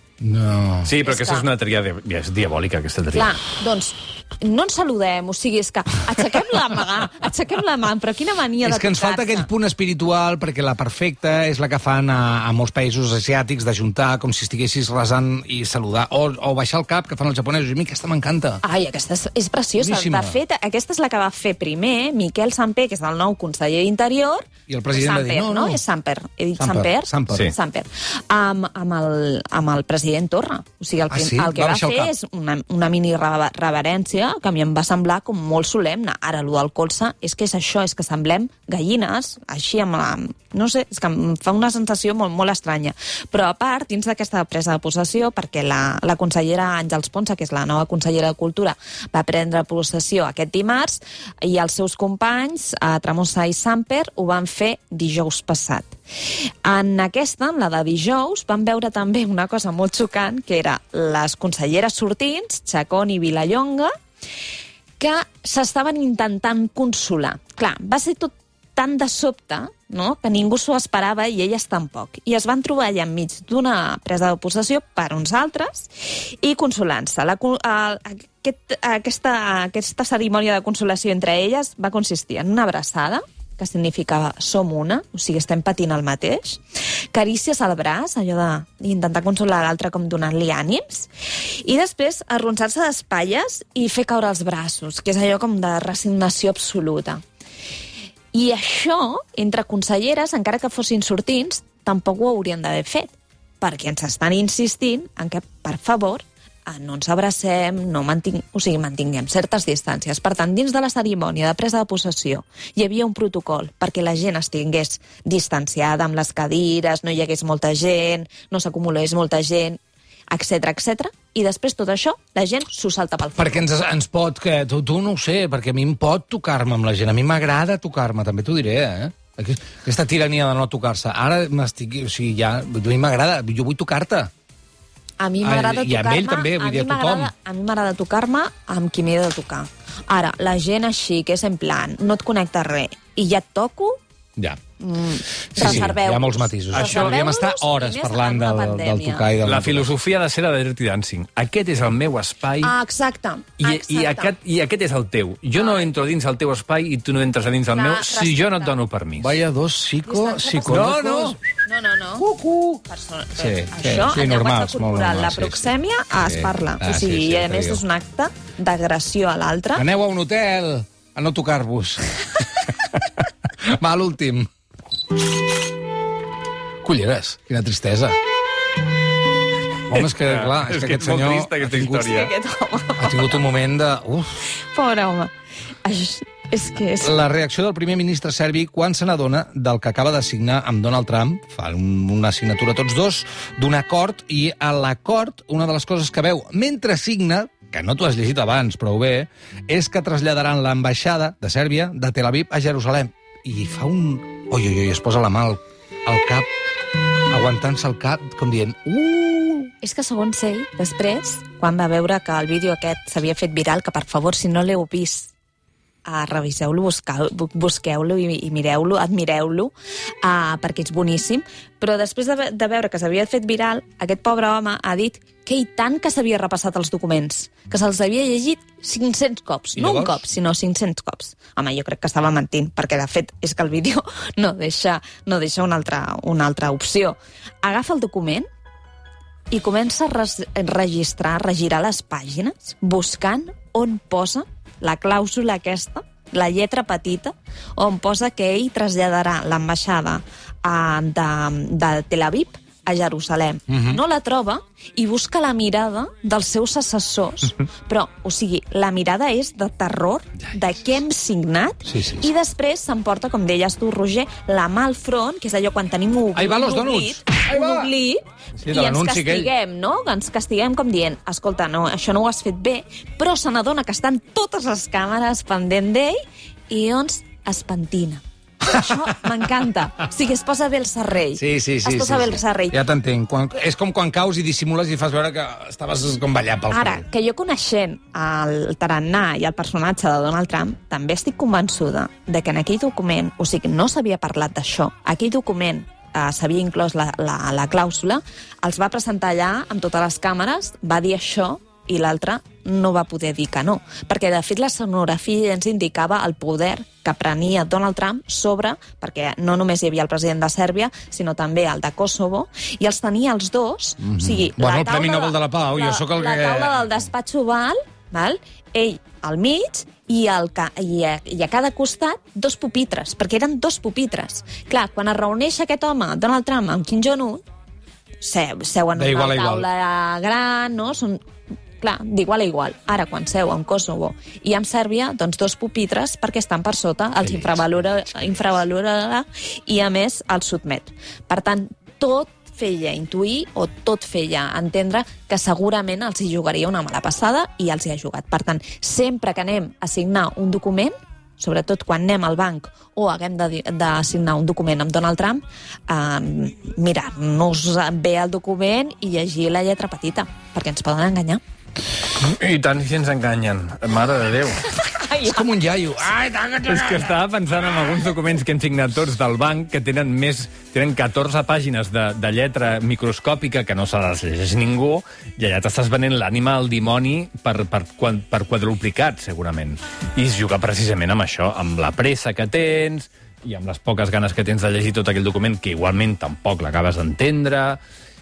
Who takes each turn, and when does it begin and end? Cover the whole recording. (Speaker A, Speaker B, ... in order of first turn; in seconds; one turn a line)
Speaker A: 0.2-0.9
Speaker B: 0.8-3.4
Speaker C: 1.0-1.5
Speaker C: 3.1-9.5
Speaker A: 8.6-18.6
Speaker C: 18.6-63.9
Speaker A: 19.8-20.4
Speaker A: 24.7-25.8
Speaker A: 26.6-27.5
Speaker A: 31.1-32.1
Speaker C: 65.0-97.2
Speaker C: 98.3-119.8
Speaker C: 120.3-123.7
Speaker A: 123.3-134.3
Speaker C: 135.2-144.0
Speaker A: 135.4-137.3
Speaker C: 144.8-149.2
Speaker A: 145.5-149.9
Speaker B: 146.7-147.2
Speaker B: 149.4-152.7
Speaker C: 152.6-154.3
Speaker B: 153.6-159.3
Speaker C: 155.6-155.9
Speaker C: 157.7-158.8
Speaker A: 159.2-161.4
Speaker C: 160.1-161.0
Speaker B: 160.7-161.4
Speaker C: 161.6-162.2
Speaker A: 162.2-162.8
Speaker C: 162.8-169.8
Speaker A: 163.3-165.7
Speaker A: 166.2-167.8
Speaker A: 169.7-172.2
Speaker A: 173.6-174.5
Speaker A: 176.8-178.2
Speaker A: 179.9-182.2
Speaker B: 179.9-182.3
Speaker C: 182.0-183.4
Speaker A: 183.0-184.4
Speaker C: 184.6-187.2
Speaker A: 187.0-206.5
Speaker A: 207.3-209.7
Speaker C: 209.8-215.3
Speaker C: 216.0-238.5
Speaker A: 229.8-230.2
Speaker C: 239.5-276.2
Speaker A: 253.7-254.0
Speaker A: 261.8-262.3
Speaker A: 266.3-267.9
Speaker A: 268.6-269.5
Speaker C: 276.7-282.8
Speaker A: 281.4-287.0
Speaker C: 286.7-327.4
Speaker A: 314.0-316.8
Speaker C: 328.2-331.2
Speaker A: 328.9-329.7
Speaker C: 331.8-361.4
Speaker B: 362.1-364.7
Speaker C: 364.7-365.5
Speaker A: 365.2-367.1
Speaker B: 366.7-387.8